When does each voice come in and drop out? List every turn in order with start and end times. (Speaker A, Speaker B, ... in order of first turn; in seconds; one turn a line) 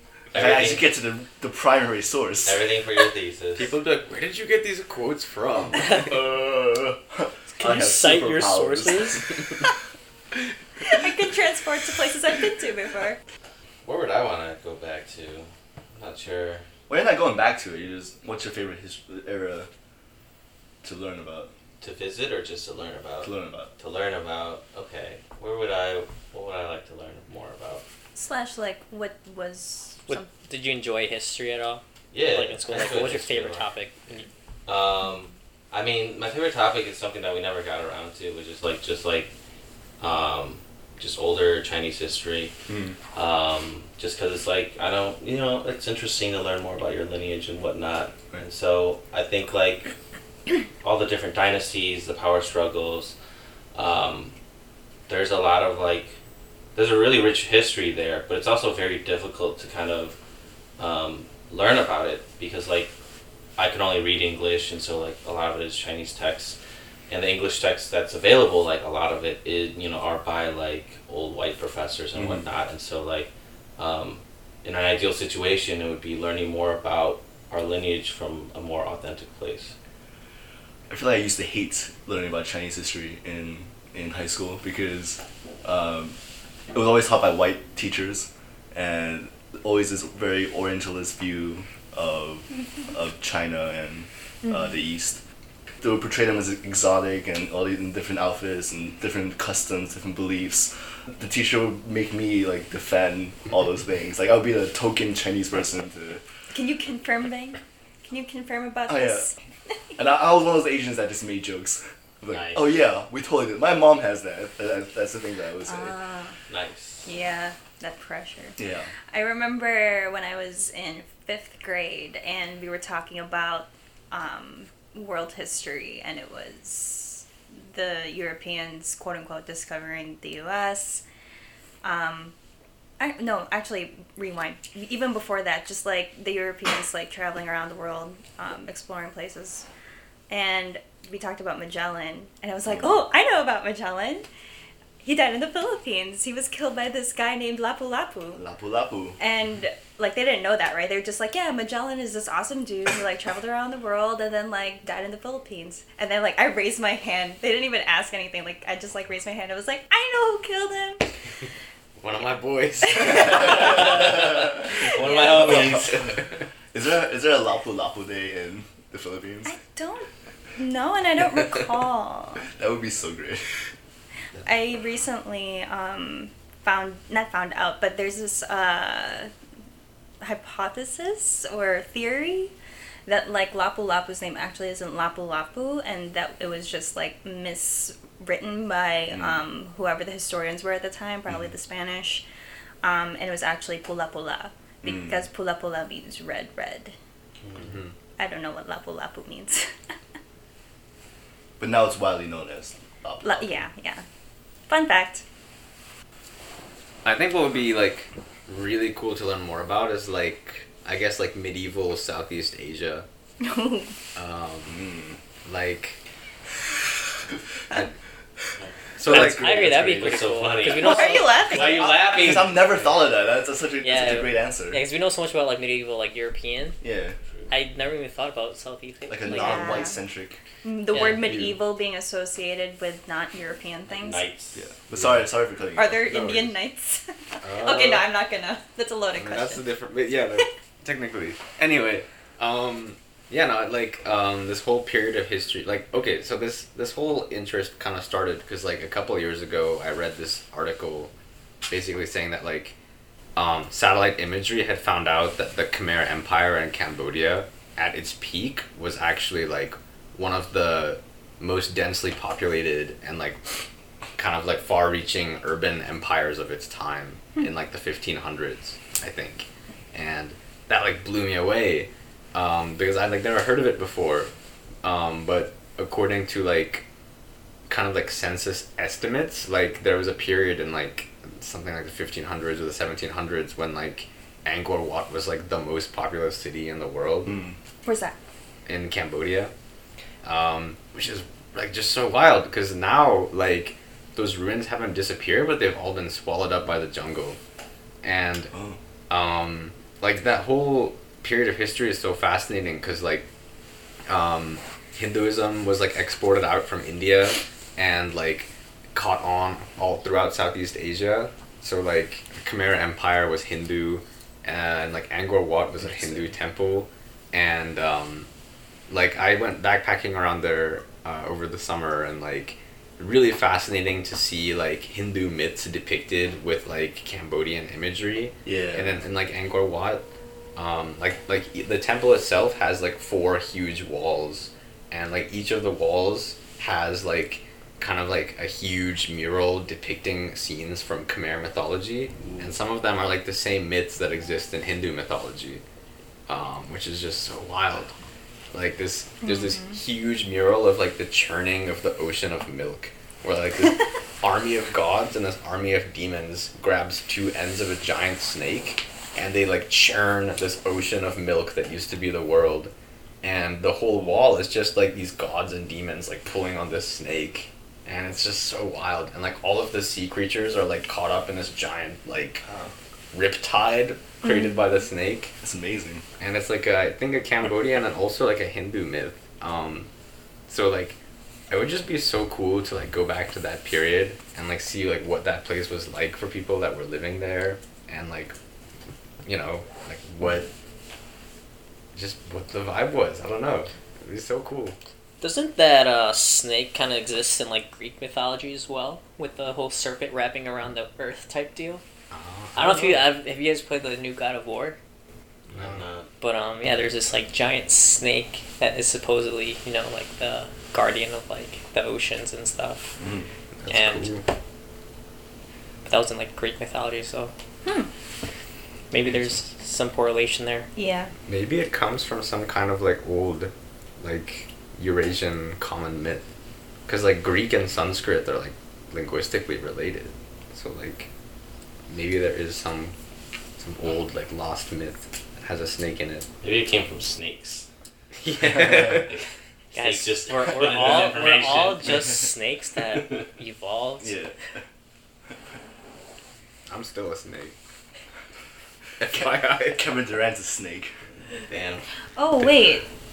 Speaker A: 0.3-0.8
Speaker B: 0.3-2.6
Speaker A: 2.4-3.7
Speaker C: 3.5-6.2
Speaker B: 5.9-9.5
Speaker D: 7.6-9.2
Speaker E: 10.9-13.2
Speaker A: 13.8-16.6
Speaker B: 16.9-19.7
Speaker B: 20.8-21.5
Speaker A: 21.8-27.8
Speaker B: 23.2-23.7
Speaker E: 28.1-30.3
Speaker D: 30.1-34.3
Speaker A: 32.1-33.7
Speaker A: 34.7-39.3
Speaker A: 40.0-42.5
Speaker B: 42.7-43.0
Speaker A: 43.1-49.9
Speaker A: 50.8-53.1
Speaker A: 53.7-54.3
Speaker A: 55.1-56.1
Speaker A: 56.7-60.2
Speaker A: 60.8-62.9
Speaker A: 63.6-66.6
Speaker A: 67.1-79.7
Speaker B: 72.1-72.5
Speaker B: 80.9-86.2
Speaker B: 86.7-95.2
Speaker B: 95.8-106.2
Speaker E: 106.5-109.3
Speaker B: 108.9-109.3
Speaker B: 110.0-115.9
Speaker A: 112.3-112.6
Speaker E: 115.7-116.4
Speaker A: 116.5-117.1
Speaker E: 117.0-118.6
Speaker B: 118.6-118.9
Speaker E: 119.1-131.0
Speaker E: 131.8-132.3
Speaker E: 133.0-139.7
Speaker E: 140.3-144.2
Speaker E: 145.0-148.4
Speaker B: 148.3-149.2
Speaker E: 149.2-161.1
Speaker C: 162.0-163.8
Speaker E: 162.8-164.1
Speaker A: 163.4-166.1
Speaker E: 164.7-165.8
Speaker B: 165.6-166.2
Speaker B: 166.7-169.5
Speaker E: 169.4-172.5
Speaker B: 172.4-173.7
Speaker E: 174.4-179.3
Speaker E: 180.2-182.5
Speaker E: 183.1-192.2
Speaker B: 189.1-189.4
Speaker E: 192.8-196.9
Speaker B: 194.8-195.2
Speaker C: 197.6-197.9
Speaker E: 198.2-199.7
Speaker B: 201.6-203.6
Speaker E: 203.2-204.0
Speaker E: 204.7-205.2
Speaker C: 207.0-213.1
Speaker E: 213.4-213.9
Speaker C: 214.1-214.8
Speaker B: 214.7-215.2
Speaker C: 215.4-216.0
Speaker C: 219.0-219.7
Speaker B: 219.0-220.1
Speaker D: 219.1-221.8
Speaker A: 219.4-222.7
Speaker E: 220.7-222.0
Speaker B: 222.1-224.8
Speaker D: 223.8-226.8
Speaker B: 226.8-227.2
Speaker D: 227.5-229.9
Speaker B: 229.1-230.4
Speaker E: 229.3-230.0
Speaker E: 230.6-234.2
Speaker C: 231.2-231.5
Speaker A: 233.9-234.6
Speaker B: 234.5-236.0
Speaker C: 234.9-235.2
Speaker E: 235.7-239.6
Speaker C: 236.0-236.5
Speaker C: 237.4-238.1
Speaker C: 239.1-251.1
Speaker C: 251.7-252.7
Speaker C: 253.3-263.4
Speaker C: 264.1-274.3
Speaker C: 274.8-276.8
Speaker C: 277.7-287.4
Speaker B: 287.2-287.5
Speaker E: 287.8-288.1
Speaker C: 288.7-289.5
Speaker C: 290.2-297.4
Speaker C: 298.0-298.5
Speaker B: 298.5-298.8
Speaker C: 299.1-303.3
Speaker C: 304.1-318.3
Speaker C: 318.9-345.6
Speaker B: 328.4-328.9
Speaker C: 346.3-347.9
Speaker C: 348.5-372.4
Speaker E: 349.2-349.7
Speaker B: 372.4-372.7
Speaker C: 373.1-375.4
Speaker E: 374.2-374.5
Speaker B: 375.4-376.0
Speaker C: 376.2-379.9
Speaker C: 380.5-381.0
Speaker C: 381.5-388.3
Speaker C: 389.2-390.5
Speaker C: 391.9-394.8
Speaker D: 395.2-401.8
Speaker C: 402.1-403.1
Speaker D: 402.6-404.8
Speaker C: 405.5-405.8
Speaker A: 405.5-406.1
Speaker D: 406.2-413.0
Speaker B: 413.0-413.2
Speaker C: 413.6-414.2
Speaker D: 413.7-414.1
Speaker D: 415.8-417.3
Speaker E: 417.6-417.9
Speaker D: 418.9-420.7
Speaker E: 420.8-421.1
Speaker C: 421.3-426.2
Speaker C: 426.9-431.1
Speaker C: 431.9-432.9
Speaker C: 433.6-436.3
Speaker A: 436.4-437.6
Speaker C: 438.1-439.1
Speaker B: 438.6-439.0
Speaker A: 439.1-442.0
Speaker D: 439.7-444.2
Speaker B: 444.0-444.6
Speaker C: 446.7-447.5
Speaker C: 449.0-449.8
Speaker B: 449.0-450.9
Speaker C: 451.5-451.8
Speaker E: 452.1-452.9